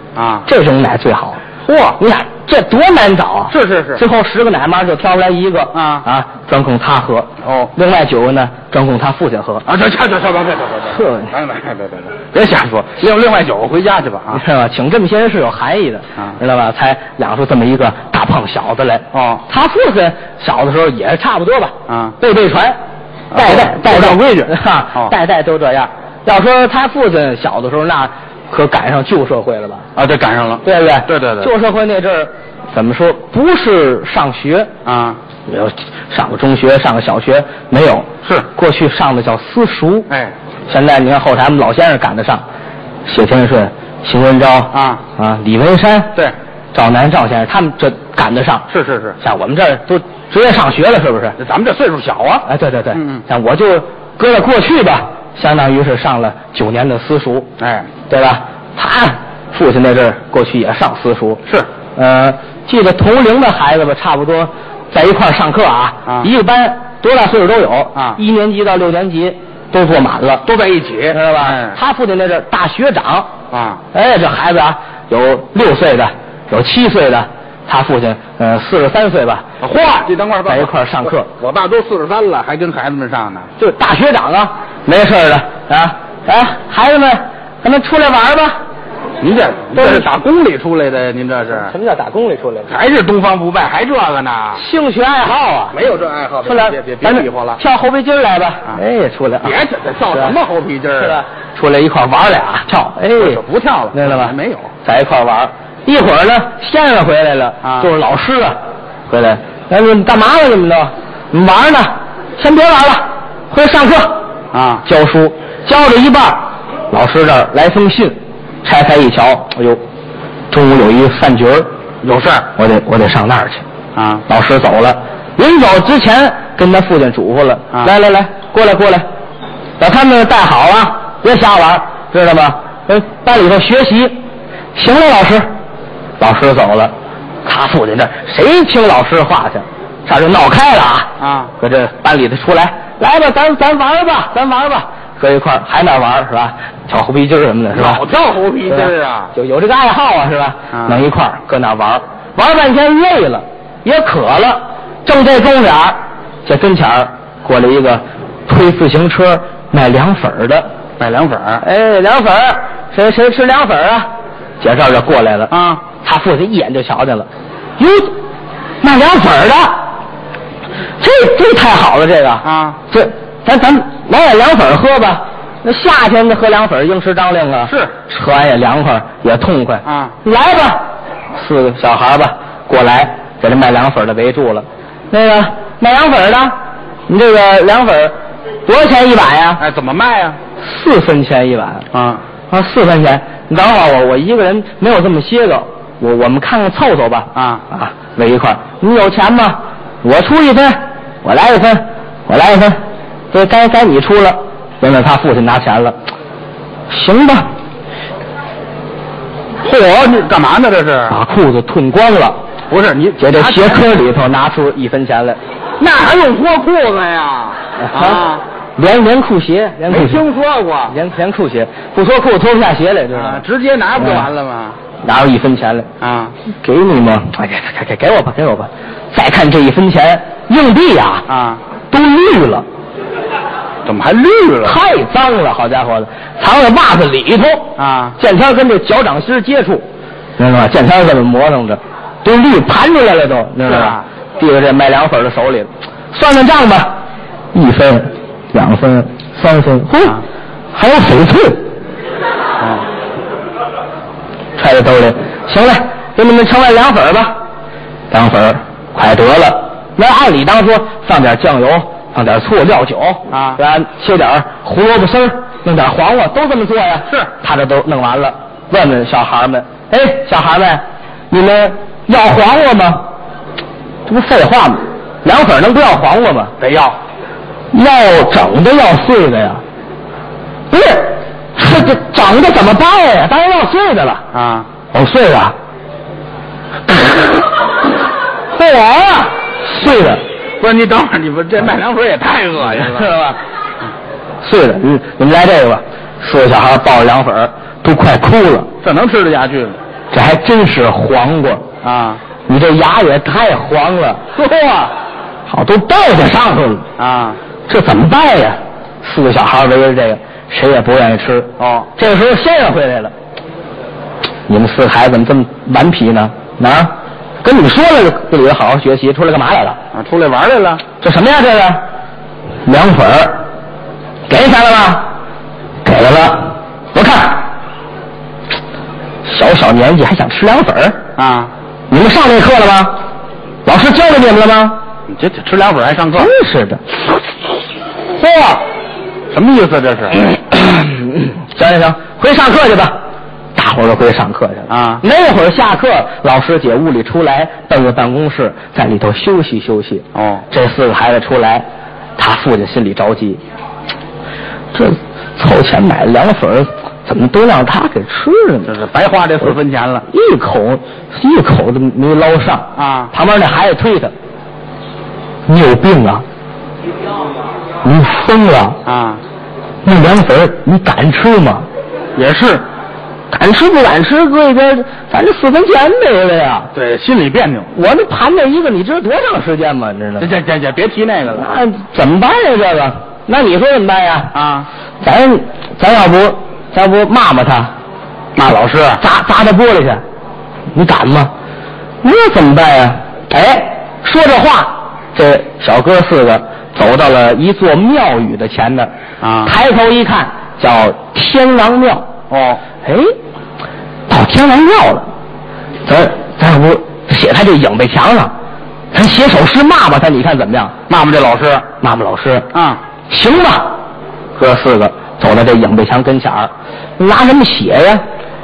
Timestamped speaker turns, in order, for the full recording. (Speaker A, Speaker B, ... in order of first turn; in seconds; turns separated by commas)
Speaker A: 0.1-0.5, Speaker B: 0.5-1.5, Speaker A: 1.7-2.0, Speaker B: 2.0-9.7, Speaker A: 3.5-4.0, Speaker A: 5.7-6.1, Speaker A: 7.4-7.7, Speaker A: 9.7-14.4, Speaker B: 10.9-11.3, Speaker B: 14.3-22.8, Speaker A: 19.1-19.4, Speaker A: 21.9-22.2, Speaker A: 23.3-25.1, Speaker B: 23.3-29.9, Speaker A: 29.9-31.5, Speaker B: 30.6-34.7, Speaker A: 34.9-35.2, Speaker B: 35.5-40.1, Speaker A: 40.1-40.3, Speaker B: 40.7-42.4, Speaker B: 43.1-46.1, Speaker A: 44.7-45.0, Speaker B: 46.7-48.7, Speaker A: 48.7-49.2, Speaker B: 49.2-51.4, Speaker A: 51.4-53.2, Speaker B: 52.5-57.5, Speaker A: 57.6-57.9, Speaker B: 58.1-61.4, Speaker B: 62.0-70.5, Speaker A: 70.5-71.8, Speaker B: 71.1-73.3, Speaker A: 73.5-73.8, Speaker B: 73.9-79.5, Speaker A: 79.6-80.7, Speaker B: 80.5-81.3, Speaker A: 81.3-83.5, Speaker B: 83.6-88.6, Speaker A: 89.2-91.7, Speaker B: 89.8-90.1, Speaker B: 91.6-92.8, Speaker A: 92.7-94.6, Speaker B: 94.5-95.8, Speaker A: 95.7-97.6, Speaker B: 96.5-99.6, Speaker A: 99.4-101.2, Speaker B: 100.1-100.4, Speaker B: 101.0-103.4, Speaker A: 103.2-104.7, Speaker B: 103.9-108.6, Speaker A: 107.6-107.9, Speaker B: 109.1-114.2, Speaker A: 114.5-114.8, Speaker B: 114.8-119.8, Speaker B: 120.5-121.7, Speaker A: 122.0-122.5, Speaker B: 122.5-123.7, Speaker A: 124.0-124.2, Speaker B: 124.3-129.0, Speaker B: 129.8-134.2, Speaker B: 134.8-135.5, Speaker B: 136.2-136.9, Speaker B: 137.4-148.0, Speaker A: 141.2-141.5, Speaker A: 147.7-149.3, Speaker B: 148.7-160.7, Speaker A: 150.7-151.0, Speaker A: 161.0-161.6, Speaker B: 161.6-164.1, Speaker B: 164.6-168.2, Speaker A: 165.5-165.8, Speaker B: 168.8-169.8, Speaker B: 171.0-180.8, Speaker A: 172.4-172.8, Speaker A: 177.7-177.9, Speaker A: 179.8-180.2, Speaker B: 181.3-186.6, Speaker B: 187.1-188.2, Speaker B: 188.7-189.6, Speaker A: 189.6-190.4, Speaker B: 190.6-191.9, Speaker A: 191.9-192.2, Speaker B: 192.5-202.8, Speaker A: 197.3-197.7, Speaker B: 203.3-205.9, Speaker B: 206.9-207.5, Speaker A: 209.6-211.1, Speaker B: 211.1-212.4, Speaker A: 212.7-213.8, Speaker B: 213.2-215.4, Speaker A: 215.8-218.4, Speaker B: 217.8-218.2, Speaker B: 218.8-220.2, Speaker A: 219.9-221.0, Speaker B: 220.9-223.4, Speaker A: 223.1-224.8, Speaker B: 224.0-224.2, Speaker B: 225.0-225.9, Speaker A: 226.0-226.3, Speaker B: 226.6-231.3, Speaker A: 231.3-231.6, Speaker B: 231.9-232.7, Speaker A: 233.8-234.8, Speaker B: 234.6-239.8, Speaker A: 237.8-238.2, Speaker B: 240.4-247.0, Speaker A: 243.6-244.0, Speaker B: 247.5-250.2, Speaker B: 250.7-251.7, Speaker A: 252.6-252.9, Speaker B: 254.6-257.4, Speaker B: 258.1-273.1, Speaker A: 263.3-263.6, Speaker B: 274.1-276.6, Speaker A: 276.6-277.0, Speaker B: 277.7-279.6, Speaker B: 280.7-284.3, Speaker A: 284.3-284.7, Speaker B: 284.9-285.5, Speaker B: 288.6-290.2, Speaker A: 290.6-293.1, Speaker B: 292.8-293.4, Speaker B: 294.4-298.7, Speaker A: 298.8-299.8, Speaker B: 300.1-301.7, Speaker A: 301.8-302.2, Speaker B: 302.5-304.9, Speaker B: 305.5-306.9, Speaker A: 307.0-307.4, Speaker B: 307.7-313.1, Speaker A: 311.6-311.9, Speaker B: 314.5-316.9, Speaker B: 317.4-319.8, Speaker A: 319.9-320.8, Speaker B: 321.0-321.8, Speaker B: 322.7-323.4, Speaker B: 324.3-325.1, Speaker B: 325.8-327.5, Speaker B: 329.3-331.0, Speaker A: 331.2-331.5, Speaker B: 331.9-333.0, Speaker B: 333.6-334.8, Speaker A: 335.1-336.3, Speaker B: 336.1-336.8, Speaker B: 338.1-338.6, Speaker A: 339.3-340.3, Speaker B: 340.6-343.0, Speaker B: 343.6-351.6, Speaker A: 344.7-345.0, Speaker A: 350.1-350.5, Speaker B: 352.2-353.4, Speaker B: 354.7-358.8, Speaker A: 358.7-360.1, Speaker B: 360.1-364.1, Speaker A: 362.8-363.1, Speaker B: 365.5-366.2, Speaker B: 367.8-368.8, Speaker A: 368.9-369.2, Speaker B: 369.8-371.7, Speaker A: 372.2-372.6, Speaker B: 373.3-376.7, Speaker A: 376.7-377.7, Speaker B: 377.7-380.3, Speaker A: 380.2-381.5, Speaker B: 381.3-384.3, Speaker A: 384.3-384.7, Speaker B: 385.0-387.7, Speaker A: 388.4-389.0, Speaker B: 389.0-390.0, Speaker B: 390.7-391.3, Speaker B: 392.0-398.9, Speaker A: 399.2-399.6, Speaker B: 399.4-402.1, Speaker A: 402.3-402.6, Speaker B: 402.8-403.1, Speaker B: 404.1-405.1, Speaker B: 405.9-408.3, Speaker B: 408.9-410.8, Speaker A: 410.9-411.6, Speaker B: 411.8-412.5, Speaker A: 412.5-412.8, Speaker B: 413.1-413.7, Speaker B: 414.4-418.0